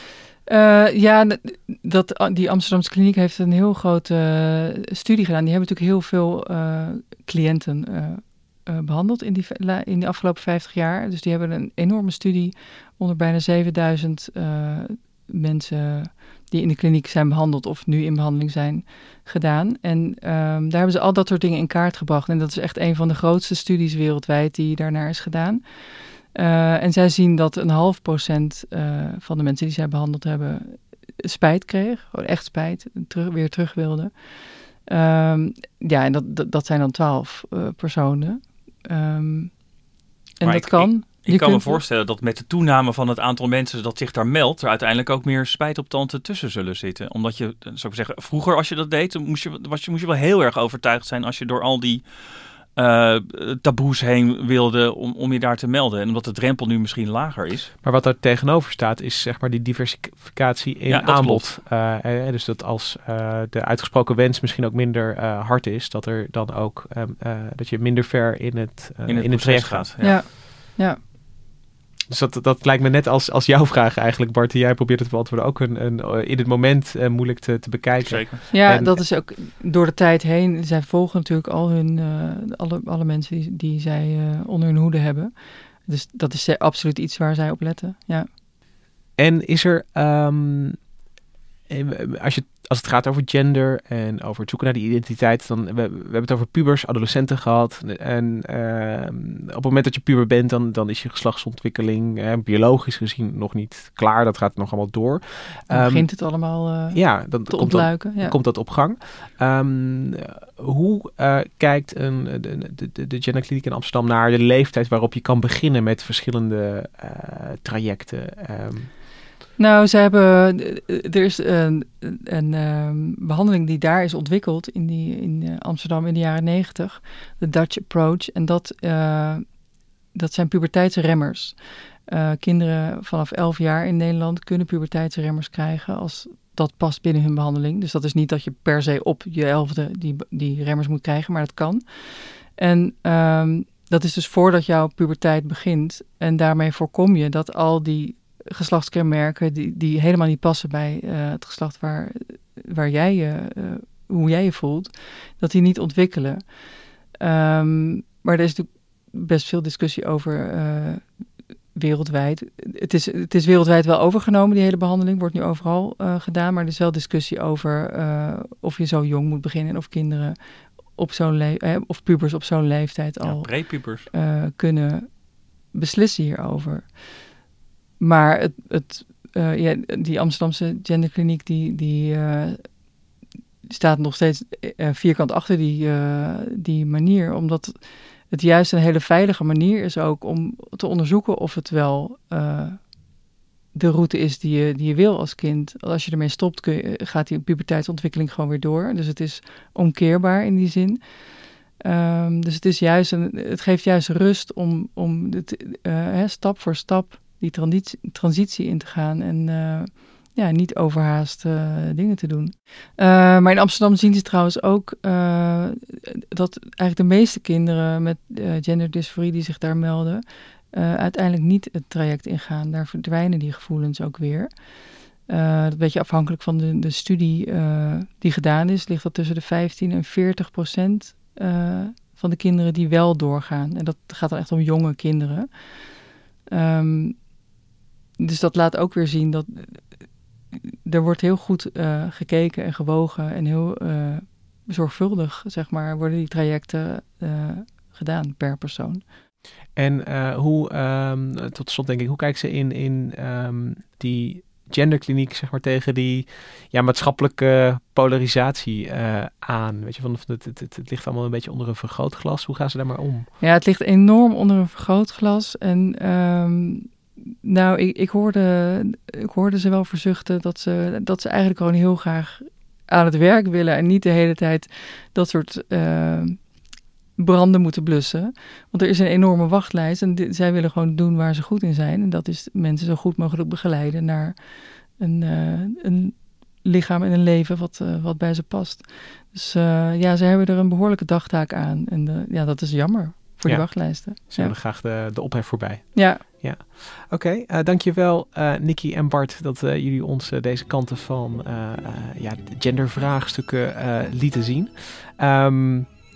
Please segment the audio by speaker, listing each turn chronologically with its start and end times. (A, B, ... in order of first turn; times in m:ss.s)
0:00.5-0:25.6 A
0:26.3-0:34.1 A
0:34.9-0:39.5 A
0:40.4-0:41.8 A
0:40.4-0:52.0 B
0:52.8-0:57.7 B
0:57.8-1:09.9 C
1:00.9-1:01.5 B
1:09.1-1:10.2 B
1:10.0-1:11.0 A
1:12.1-1:19.0 C
1:18.0-1:18.5 B
1:18.5-1:28.3 A
1:29.2-1:30.8 C
1:31.7-1:46.1 C
1:45.7-1:48.3 A
1:46.9-1:58.9 C
1:59.6-2:09.4 A
2:10.1-2:11.6 A
2:12.1-2:36.4 A
2:37.2-2:41.1 A
2:41.7-2:50.4 A
2:50.9-2:55.1 A
2:53.2-2:54.1 B
2:55.7-2:56.9 A
2:58.0-3:02.6 A
3:03.7-3:07.8 A
3:08.3-3:12.9 A
3:13.7-3:21.0 A
3:21.8-3:44.5 A
3:45.3-3:55.5 A
3:56.5-3:57.2 A
3:58.2-3:59.8 A
4:00.5-4:09.0 A
4:09.8-4:23.3 C
4:23.4-4:36.4 A
4:37.2-4:44.4 A
4:45.0-4:54.5 A
4:53.4-5:06.0 C
4:55.9-4:56.2 A